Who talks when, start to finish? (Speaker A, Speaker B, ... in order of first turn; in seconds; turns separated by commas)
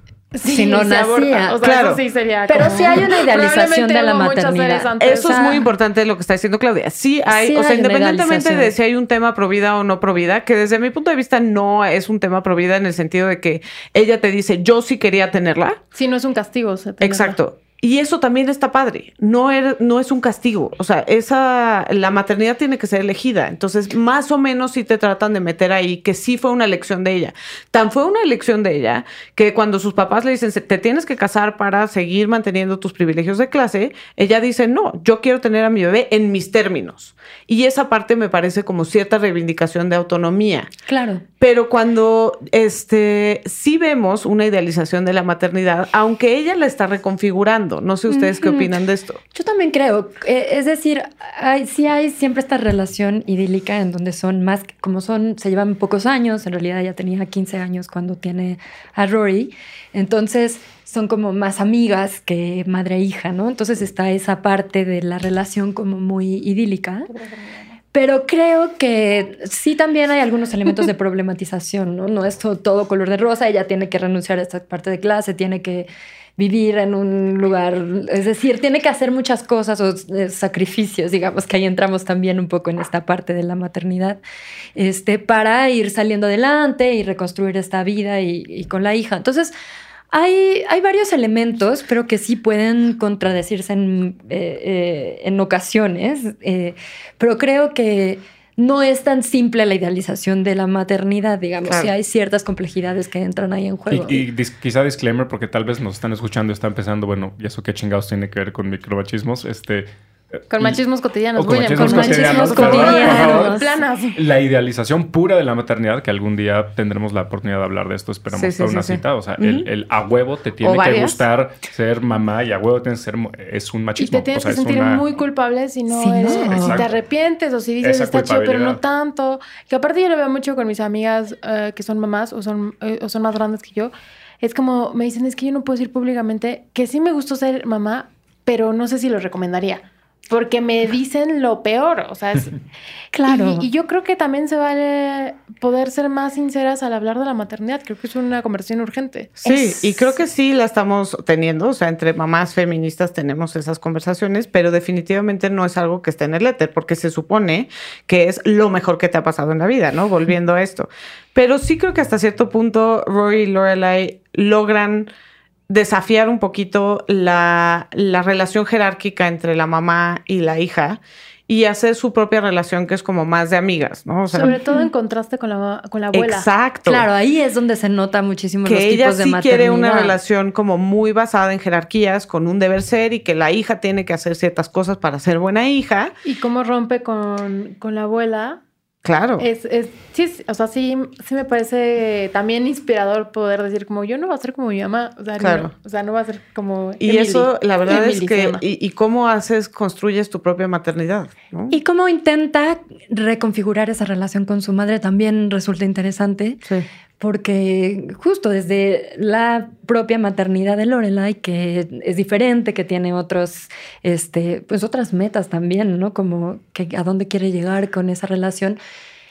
Speaker A: 0.3-5.6, Speaker B: 0.4-1.6, Speaker C: 1.6-2.0, Speaker B: 2.5-5.6, Speaker C: 5.0-15.8, Speaker B: 7.3-8.7, Speaker A: 15.9-17.4, Speaker C: 17.0-40.7, Speaker B: 40.9-41.2, Speaker C: 41.4-49.2, Speaker B: 48.1-48.7, Speaker B: 49.3-67.1, Speaker B: 67.9-84.2, Speaker B: 84.7-89.5, Speaker B: 90.1-104.2, Speaker C: 101.6-101.9, Speaker D: 103.9-110.8, Speaker A: 110.5-114.2, Speaker D: 111.3-113.6, Speaker B: 111.7-113.8, Speaker C: 112.4-113.2, Speaker D: 114.1-125.0, Speaker C: 118.3-119.7, Speaker C: 120.6-121.2, Speaker A: 124.0-142.6, Speaker B: 125.9-126.8, Speaker D: 126.3-126.9, Speaker D: 127.8-128.8, Speaker B: 143.1-143.7, Speaker A: 143.3-149.4, Speaker C: 149.4-165.1, Speaker B: 149.4-150.1, Speaker C: 165.7-174.6, Speaker B: 174.3-174.9, Speaker A: 174.3-176.5, Speaker C: 176.1-177.0, Speaker B: 176.9-180.2, Speaker C: 178.7-186.1, Speaker A: 186.2-188.6, Speaker C: 189.0-189.5, Speaker A: 189.4-198.6, Speaker C: 195.4-195.7, Speaker C: 197.0-201.7, Speaker B: 201.7-206.6, Speaker B: 207.2-218.8